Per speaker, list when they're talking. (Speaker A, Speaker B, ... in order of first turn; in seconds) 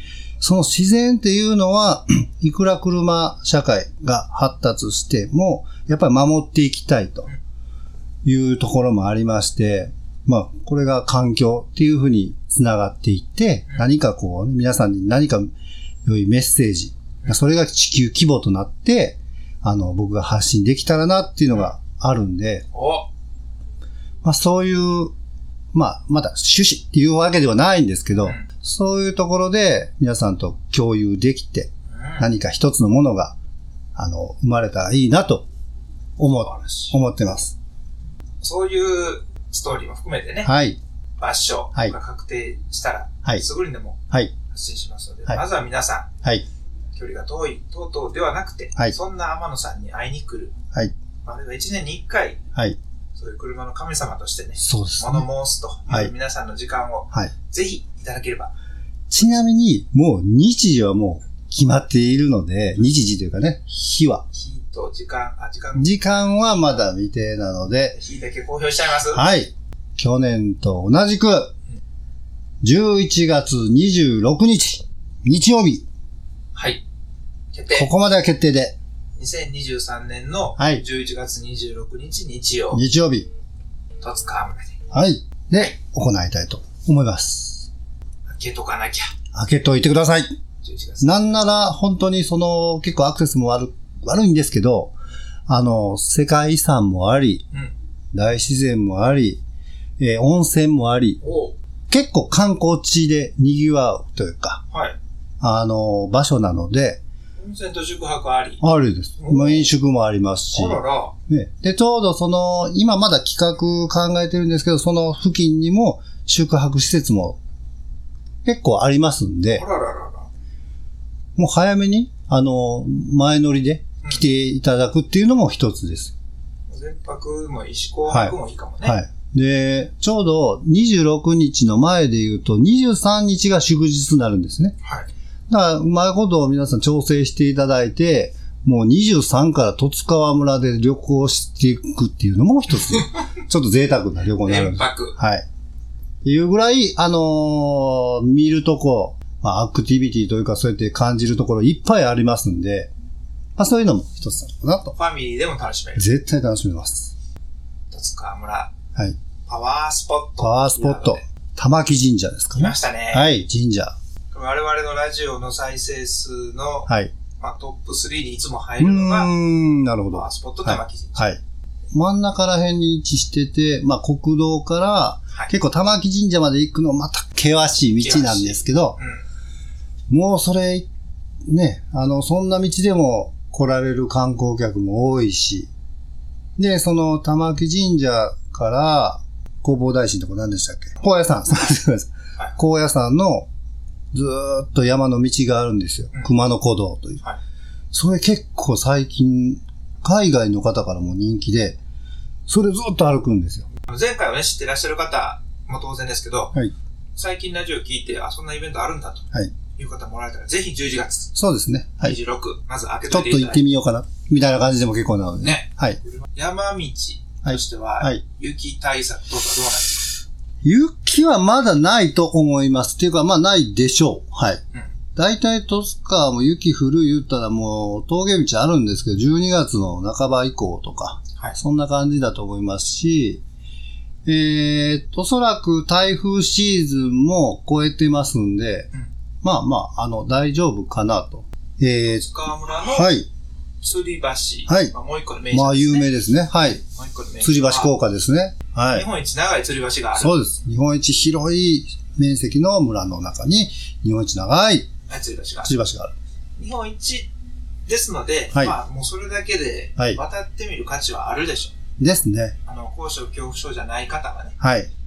Speaker A: 0.4-7.3, 8.2-15.5, 16.1-22.7, 24.2-25.1, 25.7-33.4, 34.0-35.5, 36.2-37.6, 40.4-40.8, 54.6-55.3, 59.1-64.2, 65.8-68.0, 69.1-71.5, 72.6-75.8, 77.7-78.8, 80.6-80.8, 82.7-83.3, 84.9-87.7, 89.3-90.3, 91.0-95.0, 95.5-97.5, 98.1-99.4, 100.0-101.2, 101.9-104.6, 105.4-107.0, 108.6-117.4, 118.5-119.6, 121.4-126.1, 128.1-134.8, 135.5-145.4, 146.2-152.9, 153.6-154.9, 156.0-157.1, 160.4-163.9, 168.8-171.4, 171.9-179.0, 180.1-180.9, 181.5-185.7, 186.6-193.5, 194.1-197.2, 197.9-201.8, 202.5-203.7, 211.3-212.2, 213.1-216.0, 217.4-218.2, 220.6-224.6, 225.2-233.4, 234.2-238.9, 239.4-242.3, 242.9-243.3, 244.7-244.9, 245.5-246.8, 247.4-249.1, 250.2-254.9, 255.6-256.1, 262.0-262.6, 264.6-264.9
Speaker B: 22.7-23.1, 31.9-32.3, 36.4-37.0, 38.4-40.5, 41.2-44.0, 44.5-46.1, 46.9-50.5, 51.2-52.4, 53.1-58.5, 64.3-66.8, 68.0-69.2, 76.5-76.8, 77.5-77.9, 79.2-82.8, 84.0-84.8, 88.3-89.1, 90.6-91.4, 101.2-101.6, 104.7-105.0, 107.4-108.6, 109.2-109.7, 110.5-111.2, 119.5-120.3, 126.7-129.0, 134.8-135.1, 144.4-145.2, 154.9-156.1, 157.9-158.7, 159.5-161.2, 162.6-163.3, 164.3-166.9, 167.4-169.3, 170.1-171.2, 178.0-179.2, 203.8-206.6, 207.2-209.2, 209.8-211.3, 212.0-213.6, 215.4-220.1, 242.0-243.1, 243.8-246.1, 246.7-247.9, 248.9-250.3, 255.1-255.8, 256.6-257.3, 257.9-261.8, 262.7-264.6